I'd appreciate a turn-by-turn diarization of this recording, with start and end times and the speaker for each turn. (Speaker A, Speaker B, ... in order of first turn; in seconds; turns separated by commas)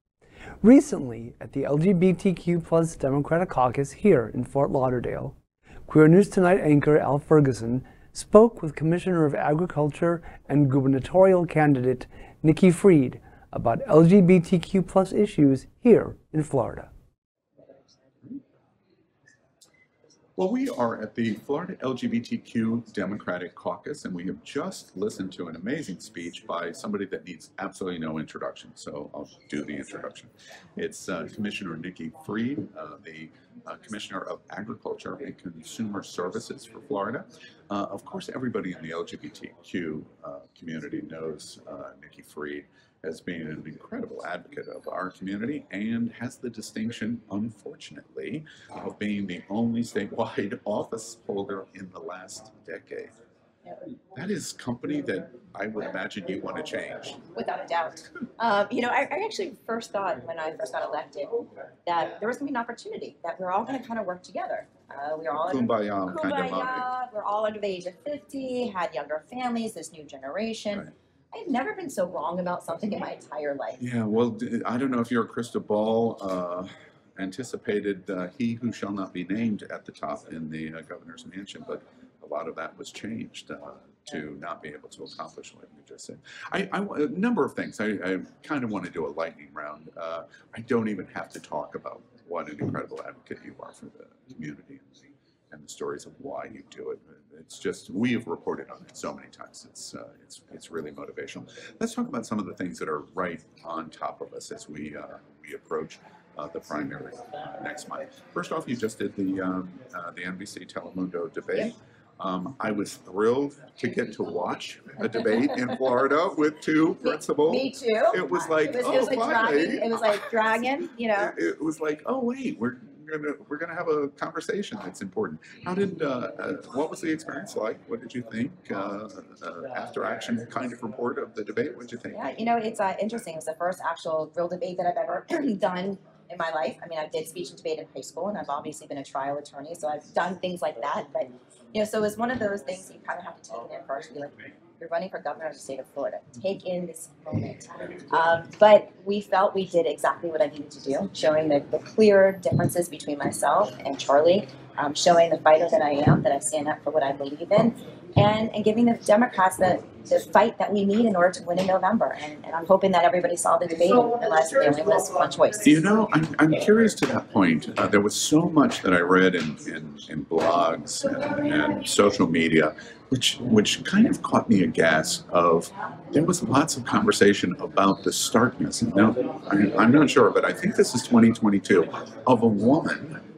Speaker A: 0.6-5.4, Speaker A: 5.9-16.9, Speaker B: 20.4-53.1, Speaker B: 54.1-57.2, Speaker C: 57.3-73.8, Speaker B: 65.5-66.9, Speaker B: 73.8-95.0, Speaker B: 95.5-120.6, Speaker C: 117.0-121.3, Speaker B: 121.1-132.3, Speaker C: 132.1-165.8, Speaker B: 165.6-183.2